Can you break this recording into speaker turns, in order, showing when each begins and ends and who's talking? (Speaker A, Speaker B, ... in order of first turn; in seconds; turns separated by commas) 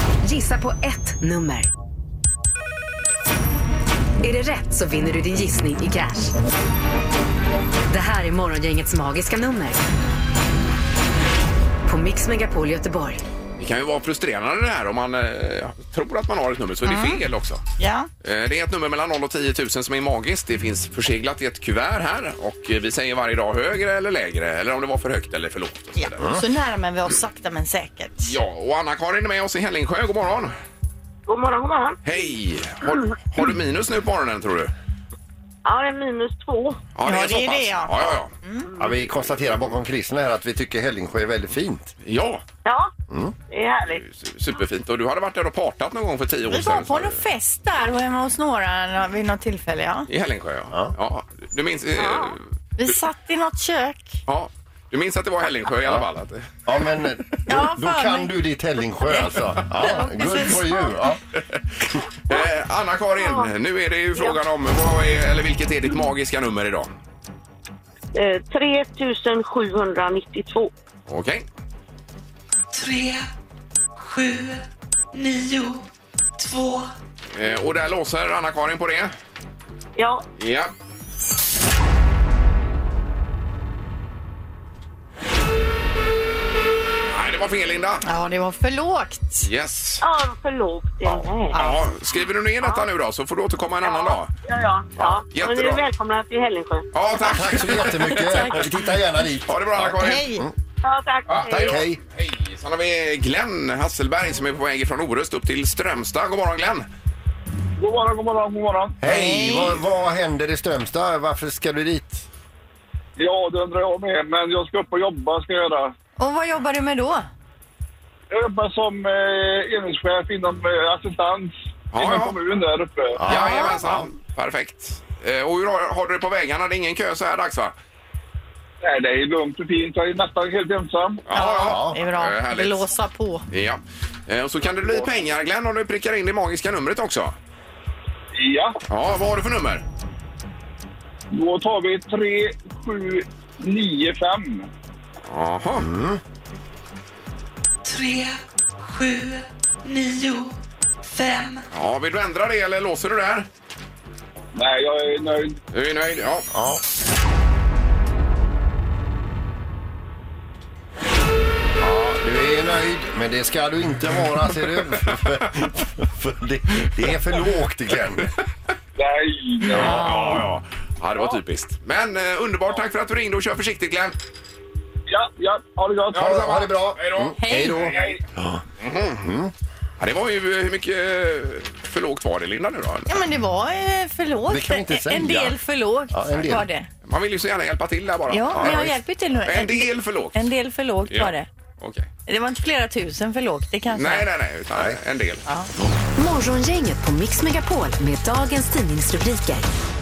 Speaker A: 0.2-1.7, Speaker A: 4.2-6.3, Speaker A: 7.9-9.8, Speaker A: 11.8-13.2, Speaker B: 13.6-17.6, Speaker C: 16.9-17.2, Speaker C: 17.8-18.1, Speaker B: 18.2-26.3, Speaker C: 26.0-28.3, Speaker B: 28.2-30.5, Speaker D: 31.3-32.0, Speaker B: 32.0-34.7, Speaker D: 35.6-36.8, Speaker B: 37.0-38.3, Speaker C: 37.0-38.7, Speaker E: 38.8-41.9, Speaker B: 42.0-42.4, Speaker D: 42.6-42.9, Speaker E: 43.1-43.3, Speaker D: 43.5-44.0, Speaker B: 44.0-47.2, Speaker C: 46.5-50.1, Speaker B: 50.1-52.4, Speaker D: 52.0-52.4, Speaker C: 52.8-54.2, Speaker B: 54.3-56.8, Speaker E: 56.7-61.2, Speaker C: 57.5-58.3, Speaker C: 59.0-60.9, Speaker B: 62.3-66.9, Speaker D: 63.2-63.5, Speaker D: 68.1-70.7, Speaker B: 71.1-71.4, Speaker F: 72.7-73.3, Speaker F: 74.0-75.8, Speaker F: 76.4-76.9, Speaker B: 77.3-79.1, Speaker D: 80.0-80.2, Speaker B: 80.4-80.7, Speaker B: 87.1-88.0, Speaker C: 88.0-89.5, Speaker B: 89.4-90.0, Speaker D: 90.0-91.6, Speaker B: 91.0-94.3, Speaker C: 91.5-91.8, Speaker D: 93.8-96.9, Speaker B: 95.0-95.8, Speaker B: 96.9-98.7, Speaker E: 97.2-100.5, Speaker C: 98.1-98.6, Speaker B: 99.5-100.3, Speaker C: 100.0-100.5, Speaker D: 100.8-101.8, Speaker B: 101.3-106.9, Speaker E: 101.5-102.0, Speaker G: 107.8-109.0, Speaker E: 109.0-112.3, Speaker C: 109.1-109.8, Speaker G: 113.2-115.9, Speaker C: 116.2-117.3, Speaker G: 118.3-123.2, Speaker B: 121.9-122.3, Speaker E: 123.2-124.1, Speaker B: 123.3-127.7, Speaker C: 123.3-123.8, Speaker G: 128.8-131.2, Speaker B: 131.3-132.9, Speaker C: 131.3-133.4, Speaker E: 131.6-132.0, Speaker B: 133.5-137.3, Speaker G: 138.3-138.8, Speaker B: 138.9-139.8, Speaker G: 141.3-144.7, Speaker B: 145.3-145.9, Speaker E: 145.8-146.2, Speaker F: 147.8-150.6, Speaker F: 151.1-151.6, Speaker B: 151.7-153.5, Speaker G: 154.6-155.6, Speaker B: 155.7-156.5, Speaker E: 156.5-156.8, Speaker E: 161.8-168.3, Speaker G: 169.0-170.3, Speaker B: 169.7-174.2, Speaker C: 169.7-170.4, Speaker G: 175.1-176.4, Speaker B: 176.1-178.1, Speaker E: 176.1-178.6, Speaker C: 177.4-177.9, Speaker G: 177.9-178.2, Speaker B: 178.8-179.3, Speaker E: 179.2-179.5, Speaker B: 180.0-183.1, Speaker C: 183.1-186.9, Speaker E: 184.5-185.6, Speaker E: 186.1-186.7, Speaker B: 187.1-188.9, Speaker C: 188.3-191.5, Speaker E: 188.5-189.0, Speaker B: 189.4-190.5, Speaker B: 191.1-192.1, Speaker C: 192.3-194.3, Speaker B: 193.9-195.4, Speaker A: 196.2-199.7